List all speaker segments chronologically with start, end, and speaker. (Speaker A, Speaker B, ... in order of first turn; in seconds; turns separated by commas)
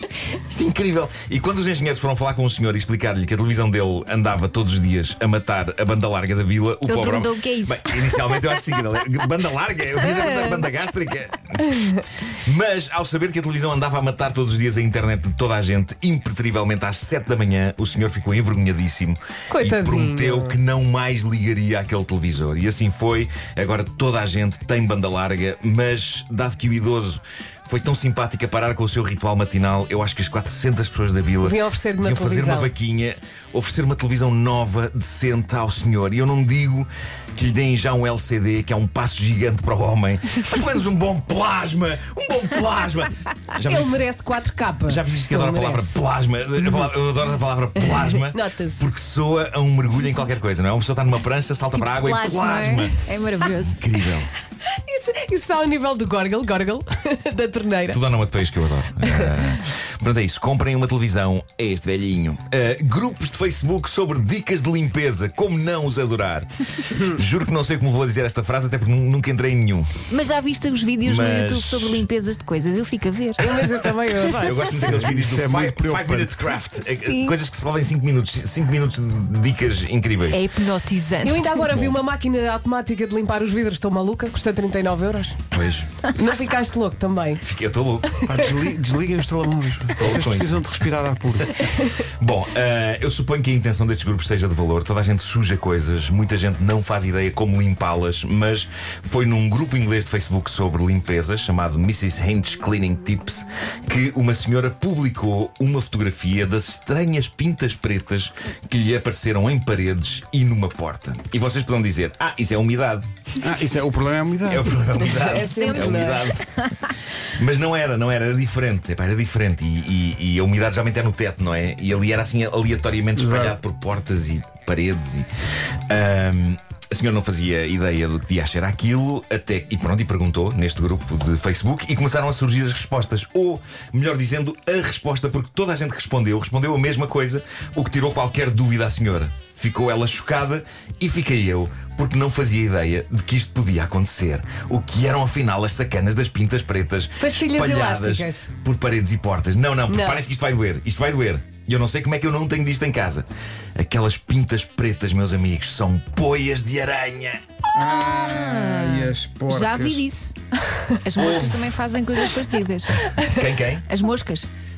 Speaker A: 0.3-44.0, Speaker B: 6.8-8.4, Speaker C: 10.1-10.6, Speaker C: 19.5-20.6, Speaker C: 31.4-32.7, Speaker C: 43.6-46.0, Speaker A: 44.9-54.3, Speaker C: 47.8-48.8, Speaker B: 51.7-53.8, Speaker C: 54.8-58.0, Speaker A: 57.9-70.0, Speaker C: 59.0-59.4, Speaker B: 70.1-73.5, Speaker A: 71.0-72.1, Speaker C: 73.4-74.8, Speaker A: 74.4-80.4, Speaker D: 74.7-76.4, Speaker C: 76.9-77.3, Speaker B: 80.3-81.6, Speaker C: 81.2-85.4, Speaker A: 85.5-86.0, Speaker C: 86.2-87.4, Speaker A: 87.4-88.1, Speaker C: 88.1-88.4, Speaker D: 88.2-91.5, Speaker A: 90.0-90.7, Speaker A: 92.0-113.0, Speaker D: 113.4-114.9, Speaker A: 114.4-116.5, Speaker C: 114.9-116.3, Speaker B: 115.4-116.9, Speaker A: 117.3-125.3, Speaker D: 123.2-123.6, Speaker A: 125.9-157.4, Speaker C: 147.2-148.5, Speaker C: 149.9-150.2, Speaker D: 157.7-160.0, Speaker B: 158.0-160.3, Speaker B: 161.0-163.1, Speaker A: 161.1-161.7, Speaker A: 163.2-163.8, Speaker B: 163.9-164.5